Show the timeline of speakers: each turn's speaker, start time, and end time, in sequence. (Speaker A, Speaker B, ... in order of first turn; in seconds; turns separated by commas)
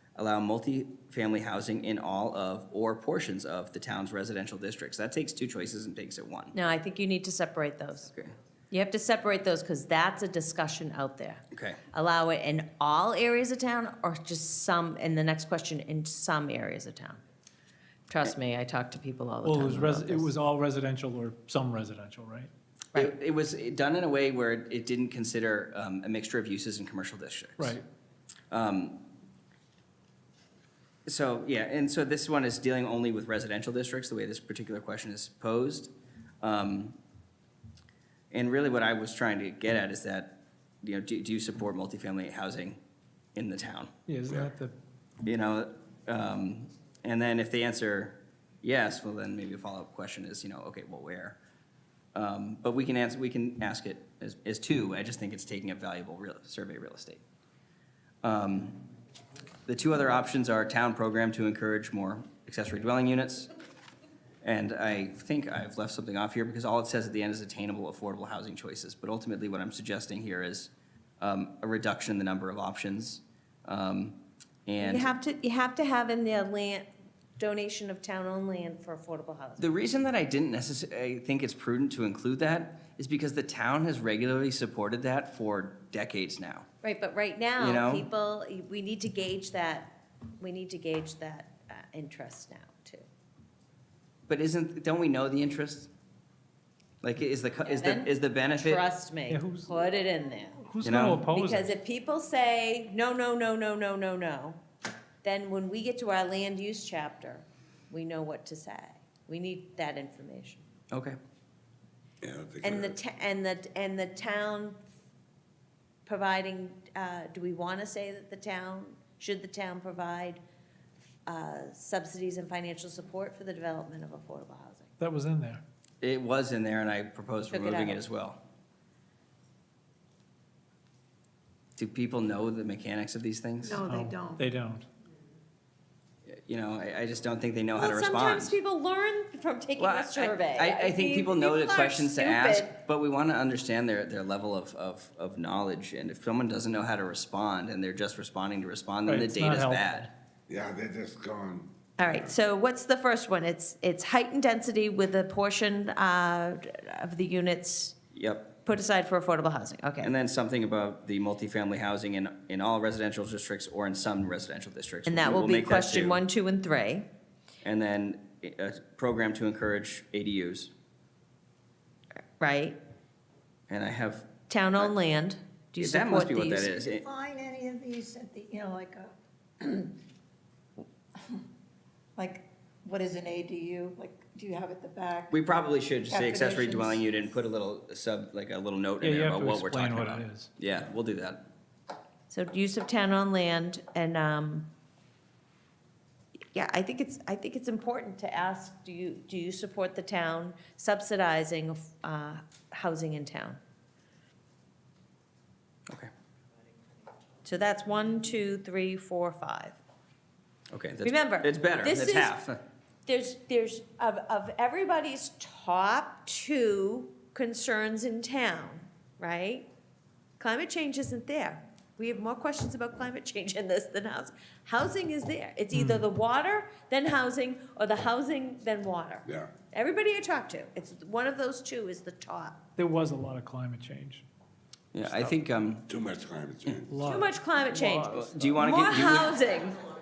Speaker A: 0.2-6.5, Speaker B: 6.5-8.1, Speaker A: 8.1-8.3, Speaker B: 8.7-17.2, Speaker A: 11.5-11.8, Speaker B: 18.1-20.3, Speaker C: 19.4-22.5, Speaker A: 22.9-27.8, Speaker A: 28.5-29.1, Speaker A: 31.1-37.0, Speaker A: 38.3-42.8, Speaker A: 43.4-43.9, Speaker C: 44.1-44.7, Speaker A: 45.2-51.4, Speaker A: 52.1-57.2, Speaker A: 58.2-58.8, Speaker A: 59.7-63.5, Speaker A: 64.4-75.1, Speaker B: 74.8-76.9, Speaker B: 77.4-79.7, Speaker A: 79.6-86.7, Speaker B: 86.8-93.1, Speaker A: 87.6-88.1, Speaker A: 94.3-95.9, Speaker A: 97.0-98.8, Speaker B: 97.7-100.6, Speaker C: 99.3-99.7, Speaker C: 100.7-101.7, Speaker A: 100.8-101.3, Speaker B: 101.3-104.6, Speaker B: 105.2-110.6, Speaker A: 110.9-111.2, Speaker D: 112.2-113.0, Speaker B: 112.6-114.8, Speaker B: 116.1-120.4, Speaker B: 121.3-124.9, Speaker C: 125.0-125.6, Speaker A: 126.0-128.4, Speaker B: 127.5-128.0, Speaker A: 131.8-133.8, Speaker E: 133.6-134.4, Speaker C: 133.8-134.9, Speaker A: 136.3-138.6, Speaker B: 137.8-142.7, Speaker A: 139.8-150.1, Speaker C: 149.1-150.1, Speaker D: 150.5-152.4, Speaker B: 152.0-158.0, Speaker A: 158.1-158.6, Speaker B: 158.6-160.1, Speaker A: 160.0-166.2, Speaker B: 165.1-167.1, Speaker A: 167.6-170.7, Speaker B: 172.4-172.8, Speaker A: 173.7-174.9, Speaker B: 174.5-176.8, Speaker A: 175.8-177.1, Speaker E: 176.8-179.9, Speaker E: 182.2-185.3, Speaker A: 185.3-191.4, Speaker E: 186.1-187.0, Speaker C: 189.0-190.5, Speaker B: 192.3-194.7, Speaker B: 196.5-203.6, Speaker B: 207.4-209.8, Speaker A: 210.7-212.6, Speaker B: 211.0-212.4, Speaker B: 213.1-219.7, Speaker B: 220.4-232.6, Speaker C: 225.7-226.0, Speaker D: 229.3-229.5, Speaker C: 232.8-234.2, Speaker A: 234.9-235.9, Speaker D: 235.1-235.4, Speaker D: 235.9-237.0, Speaker C: 236.9-238.6, Speaker B: 237.0-239.9, Speaker A: 238.1-239.4